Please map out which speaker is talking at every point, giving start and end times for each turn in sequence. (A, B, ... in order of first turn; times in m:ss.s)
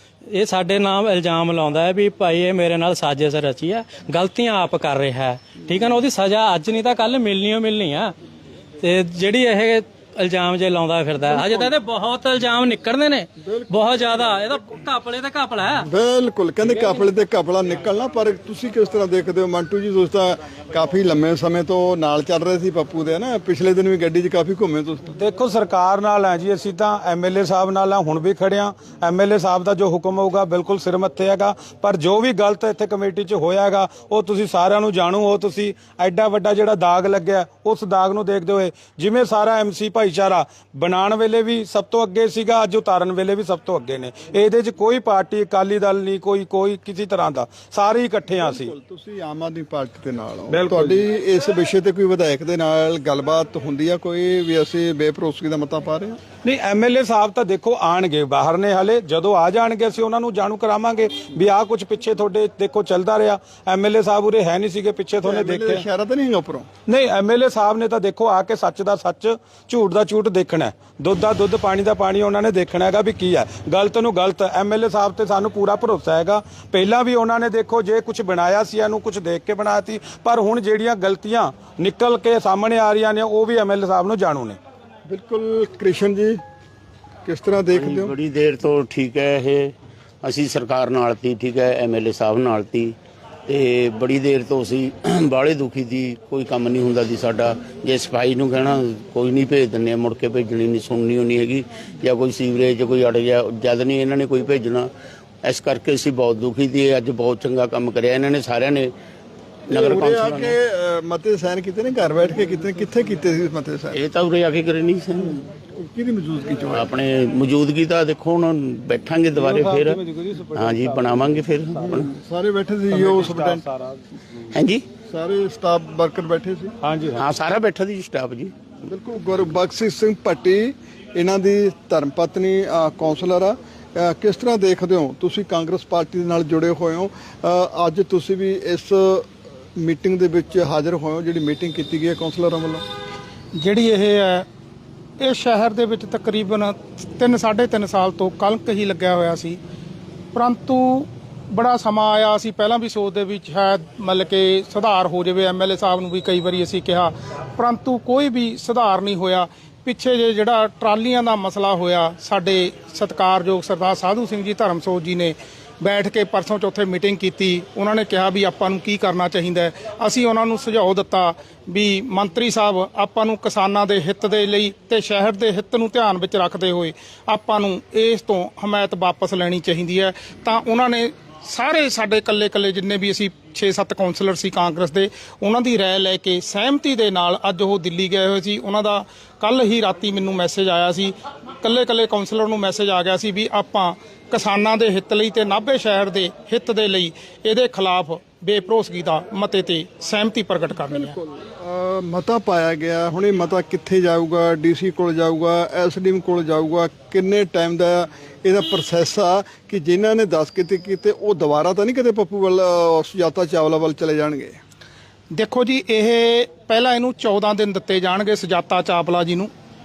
0:00.3-0:08.2 A
0:08.8-0:15.9 A
0:11.3-0:11.7 B
0:13.4-0:13.8 B
0:15.8-0:25.2 B
0:25.2-0:48.7 C
0:48.4-0:56.2 B
0:50.5-0:51.0 C
0:56.4-1:05.8 C
1:05.2-1:06.7 B
1:06.9-1:24.6 C
1:25.1-1:26.4 B
1:27.2-1:28.2 B
1:27.7-1:29.7 D
1:30.2-1:33.0 D
1:33.5-1:44.9 D
1:45.4-1:48.9 D
1:49.7-1:54.0 B
1:49.7-1:50.6 D
1:53.9-1:55.3 D
1:55.2-1:56.9 B
1:56.7-2:02.1 D
2:01.9-2:03.7 B
2:04.5-2:04.9 D
2:05.0-2:06.7 B
2:07.0-2:08.5 D
2:08.8-2:22.8 B
2:23.6-2:24.5 E
2:25.2-2:29.6 E
2:30.3-3:21.2 E
3:20.8-3:34.6 B
3:35.3-3:39.5 E